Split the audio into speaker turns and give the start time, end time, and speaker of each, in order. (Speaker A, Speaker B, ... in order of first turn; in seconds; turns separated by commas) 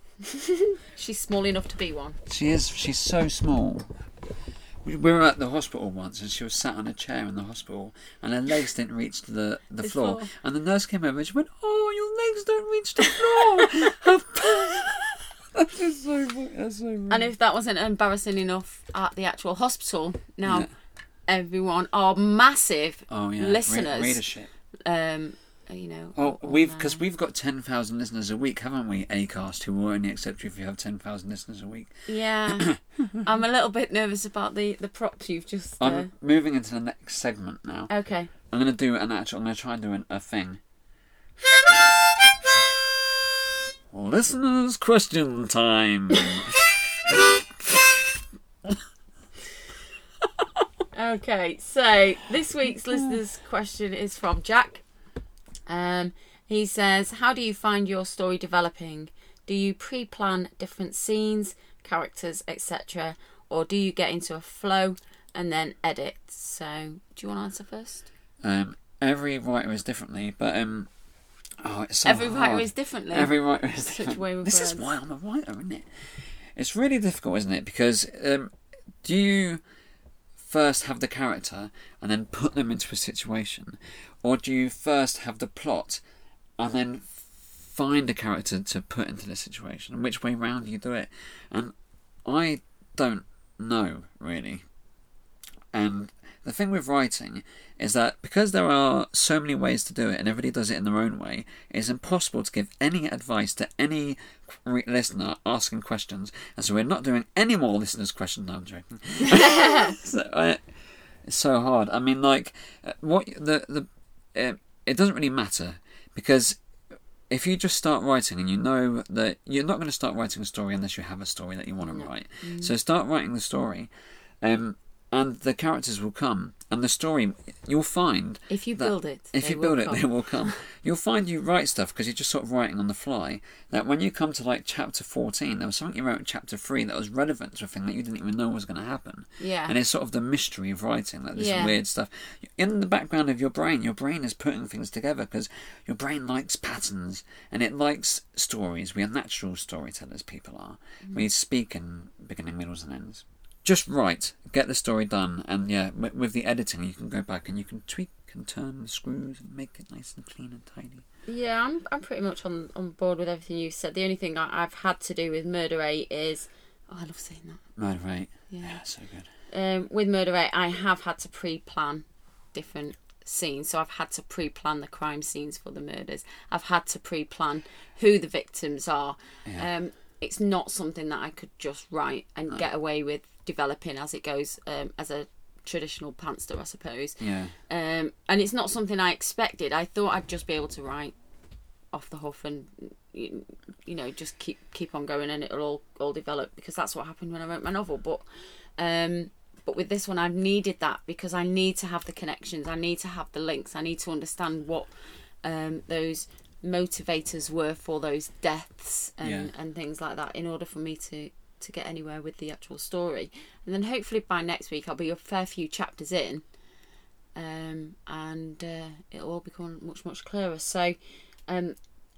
Speaker A: 0.2-2.2, Speaker B: 2.3-3.9, Speaker B: 4.8-17.3, Speaker A: 9.8-10.3, Speaker A: 17.1-20.7, Speaker B: 20.4-20.7, Speaker A: 21.3-24.2, Speaker B: 23.1-24.5, Speaker A: 24.8-27.0, Speaker B: 26.1-31.9, Speaker A: 32.1-32.7, Speaker B: 32.5-33.3, Speaker A: 33.2-36.1, Speaker B: 35.8-37.9, Speaker A: 37.9-38.3, Speaker B: 38.5-40.6, Speaker B: 41.6-43.1, Speaker B: 43.9-48.0, Speaker A: 50.9-54.8, Speaker A: 55.7-68.1, Speaker B: 68.4-70.9, Speaker B: 71.6-78.5, Speaker A: 72.0-74.9, Speaker B: 79.0-79.6, Speaker B: 80.4-86.0, Speaker B: 86.6-91.7, Speaker B: 92.2-94.6, Speaker B: 95.7-110.6, Speaker A: 109.2-109.9, Speaker B: 111.2-116.6, Speaker B: 117.3-123.9, Speaker A: 121.8-122.7, Speaker B: 124.4-161.0, Speaker A: 128.5-130.6, Speaker A: 139.4-139.8, Speaker A: 141.3-141.7, Speaker A: 161.3-167.6, Speaker B: 167.8-169.3, Speaker A: 168.5-168.8, Speaker A: 169.5-191.1, Speaker B: 187.2-187.5, Speaker A: 191.9-198.2, Speaker A: 198.8-204.9, Speaker A: 205.4-216.4, Speaker B: 209.2-209.5, Speaker A: 217.3-220.9, Speaker A: 221.5-221.8